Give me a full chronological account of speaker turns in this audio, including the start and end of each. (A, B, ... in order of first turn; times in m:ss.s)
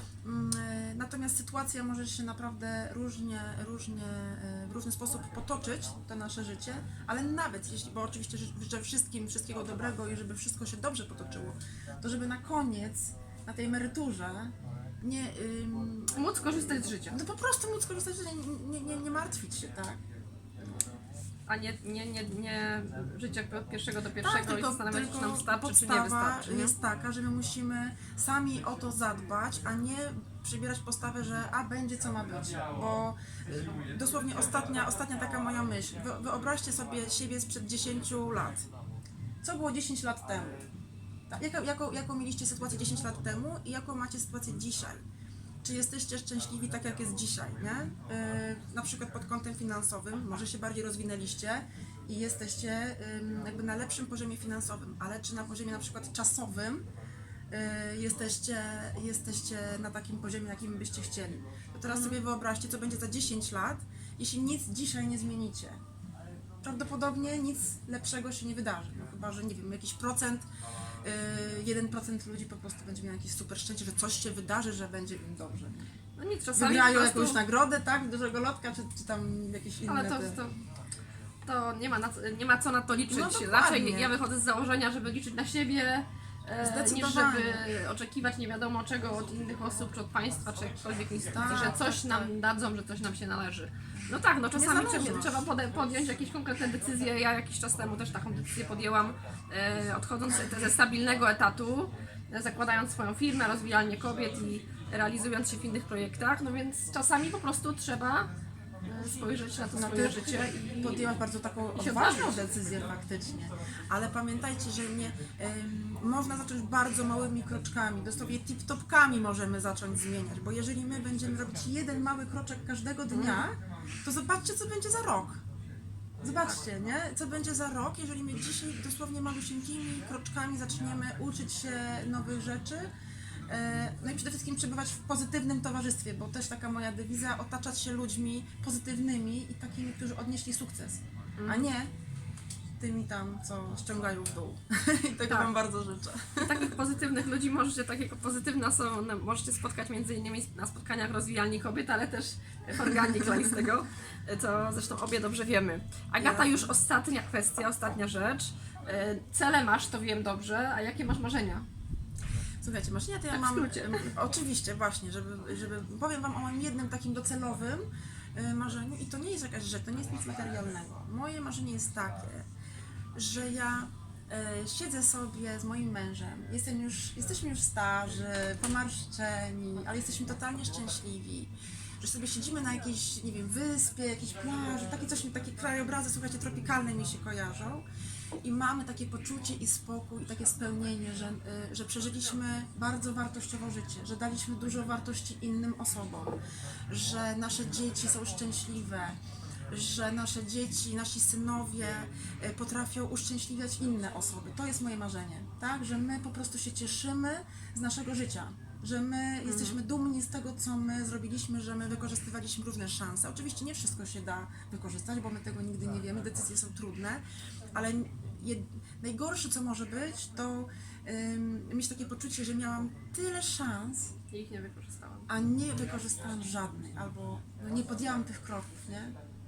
0:00.2-0:20.0 A
0:16.1-0:17.2 B
0:21.5-0:26.8 B
0:24.2-0:38.7 A
0:39.4-0:40.7 A
0:41.3-0:45.0 A
0:45.6-0:56.8 A
0:57.5-1:05.8 A
1:01.9-1:02.2 B
1:06.6-1:10.4 A
1:11.0-1:15.9 A
1:16.2-1:17.4 B
1:16.5-1:20.4 A
1:19.8-1:20.5 B
1:21.4-1:48.3 B
1:22.9-1:24.1 A
1:26.6-1:27.6 A
1:31.3-1:32.3 A
1:34.4-1:35.5 A
1:48.8-1:51.1 B
1:49.7-2:05.4 A
1:51.8-1:52.5 B
2:03.1-2:03.5 B
2:06.2-2:12.9 A
2:13.5-2:21.9 A
2:21.4-2:21.7 B
2:22.8-2:26.7 A
2:26.4-2:41.6 B
2:36.2-2:36.6 A
2:42.6-2:52.5 A
2:43.3-2:44.1 B
2:53.1-3:07.8 A
3:08.4-3:16.4 A
3:16.9-3:19.2 A
3:19.7-3:37.2 A
3:29.4-3:29.8 B
3:37.7-3:44.1 A
3:44.3-3:45.3 B
3:45.3-3:49.1 A